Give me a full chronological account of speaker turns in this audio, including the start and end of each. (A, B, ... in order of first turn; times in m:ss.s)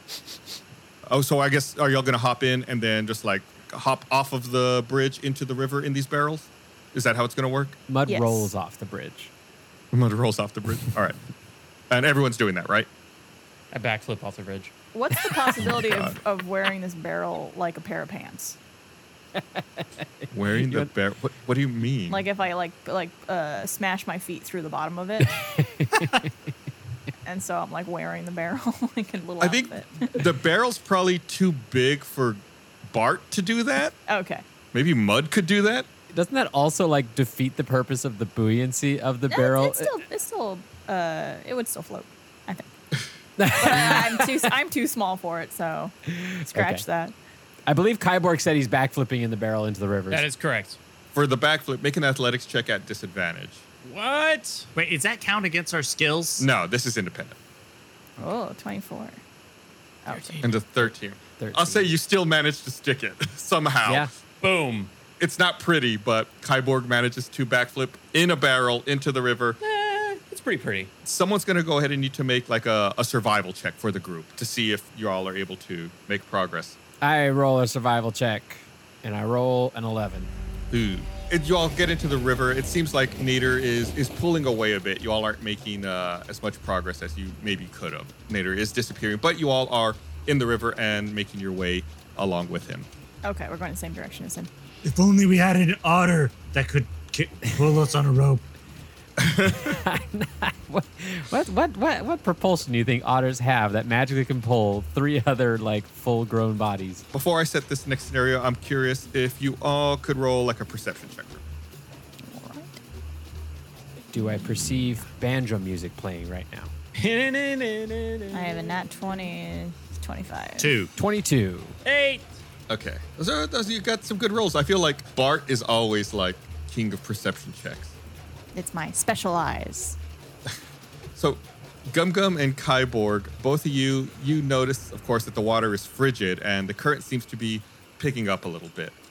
0:01.1-0:07.8 A
0:07.9-0:09.3 B
0:08.0-0:08.5 C
0:09.9-0:11.2 A
0:11.9-0:12.9 A
0:13.7-0:14.7 D
0:14.9-0:18.6 C
0:15.6-0:16.2 A
0:20.2-0:20.9 B
0:20.3-0:22.2 A
0:22.1-0:25.4 C
0:25.4-0:26.3 B
0:27.2-0:30.3 C
0:29.4-0:33.9 A
0:34.1-0:34.4 C
0:34.7-0:35.9 A
0:36.1-0:39.9 B
0:39.3-0:42.7 C
0:43.4-0:44.5 B
0:43.5-0:45.9 C
0:46.1-0:46.8 B
0:46.4-0:47.1 C
0:47.7-0:50.3 B
0:50.1-0:50.8 D
0:51.1-0:53.6 A
0:53.8-0:54.7 D
0:54.7-0:56.5 E
0:56.4-0:57.4 A
0:58.2-0:59.2 C
1:00.0-1:00.5 C
1:00.1-1:00.4 D
1:00.4-1:04.1 A
1:00.8-1:01.9 B
1:04.4-1:04.9 D
1:05.2-1:09.6 A
1:09.6-1:10.9 D
1:11.0-1:16.8 A
1:17.0-1:20.3 B
1:20.7-1:32.9 A
1:33.2-1:34.5 C
1:34.8-1:38.4 F
1:39.2-1:39.7 A
1:39.5-1:47.0 B
1:47.1-1:51.4 A
1:52.2-1:52.8 C
1:54.1-1:56.7 B
1:56.9-1:58.8 D
1:58.3-2:00.8 C
2:00.6-2:00.9 E
2:01.0-2:01.8 B
2:01.8-2:02.3 D
2:02.7-2:08.0 A
2:08.5-2:10.0 C
2:11.1-2:18.9 A